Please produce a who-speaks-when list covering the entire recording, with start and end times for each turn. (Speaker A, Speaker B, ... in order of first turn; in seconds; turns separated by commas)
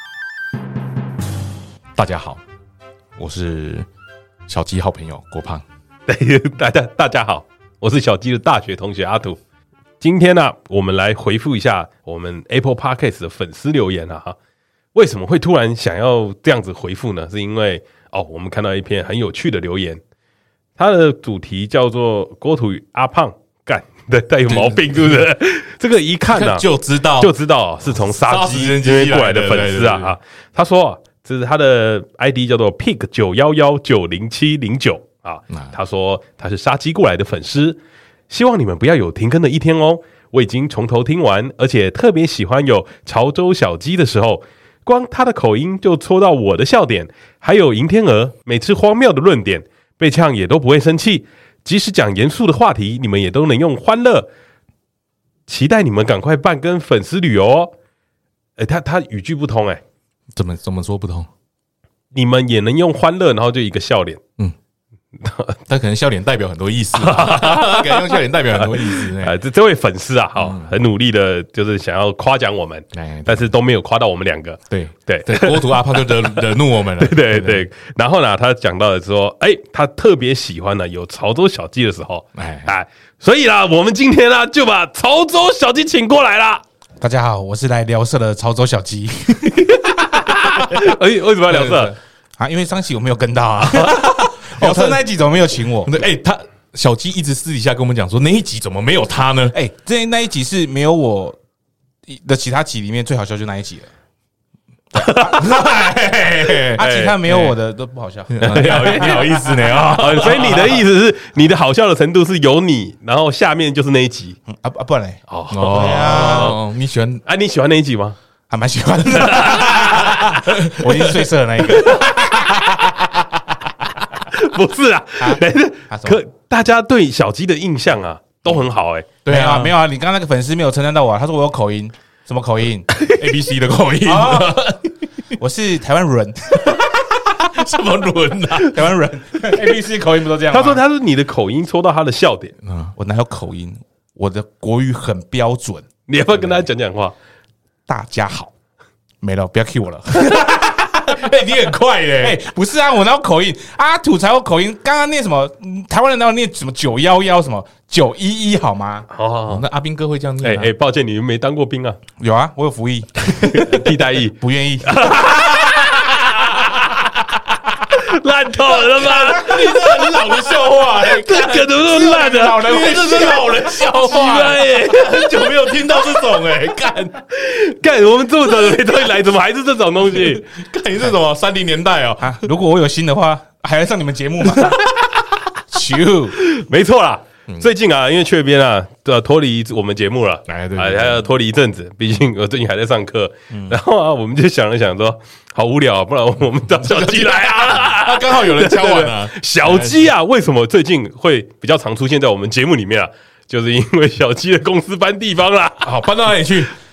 Speaker A: 2.0-2.4, Speaker A: 3.2-3.9, Speaker A: 4.5-5.6, Speaker B: 6.1-9.4, Speaker B: 10.0-14.4, Speaker B: 14.9-20.0, Speaker B: 20.8-37.8, Speaker A: 24.4-25.3, Speaker A: 26.3-27.3, Speaker A: 27.9-30.2, Speaker B: 38.3-54.3, Speaker B: 55.5-57.7, Speaker B: 58.6-59.8, Speaker A: 60.3-61.3, Speaker B: 62.1-64.2, Speaker B: 65.2-65.6, Speaker A: 65.7-69.4, Speaker B: 67.0-86.6, Speaker A: 70.4-70.7, Speaker A: 72.9-73.5, Speaker A: 74.7-77.7, Speaker A: 82.3-82.7, Speaker C: 87.0-90.3, Speaker B: 90.1-92.0, Speaker A: 91.5-91.9, Speaker C: 92.4-95.9, Speaker A: 93.7-95.1, Speaker A: 95.8-99.5, Speaker C: 99.5-101.4, Speaker C: 102.1-103.9, Speaker C: 104.9-105.6, Speaker B: 105.0-105.4, Speaker A: 105.2-107.6, Speaker C: 106.7-110.6, Speaker B: 106.8-107.2, Speaker A: 108.3-110.8, Speaker B: 108.5-109.2, Speaker B: 110.0-114.4, Speaker C: 114.5-116.6, Speaker B: 115.3-116.6, Speaker A: 115.5-117.2, Speaker B: 117.2-118.2, Speaker C: 118.5-122.5, Speaker A: 119.2-121.3, Speaker B: 119.2-119.7, Speaker B: 121.8-122.8, Speaker B: 124.2-129.1, Speaker C: 125.2-126.2, Speaker A: 129.2-129.8, Speaker C: 129.3-133.3, Speaker A: 132.9-134.9, Speaker C: 134.0-134.6, Speaker C: 135.4-136.9, Speaker A: 136.7-138.8, Speaker C: 138.6-140.8, Speaker B: 140.5-142.6, Speaker A: 142.6-142.9, Speaker C: 143.0-146.7, Speaker B: 146.1-147.1, Speaker C: 147.9-148.5, Speaker C: 149.2-150.9, Speaker A: 150.4-152.4, Speaker C: 152.2-159.1, Speaker B: 159.1-159.7, Speaker A: 159.5-160.7, Speaker B: 160.4-162.0, Speaker C: 162.2-165.3, Speaker B: 163.6-166.8, Speaker B: 167.9-169.7, Speaker A: 168.9-177.2, Speaker C: 169.0-170.5, Speaker B: 171.1-173.2, Speaker C: 171.4-173.7, Speaker B: 173.8-175.7, Speaker B: 177.3-180.4, Speaker A: 180.1-182.4, Speaker C: 182.2-184.9, Speaker C: 185.7-186.4, Speaker B: 186.4-205.9, Speaker A: 190.5-191.3, Speaker C: 193.5-193.8, Speaker A: 196.8-200.1, Speaker A: 205.8-206.7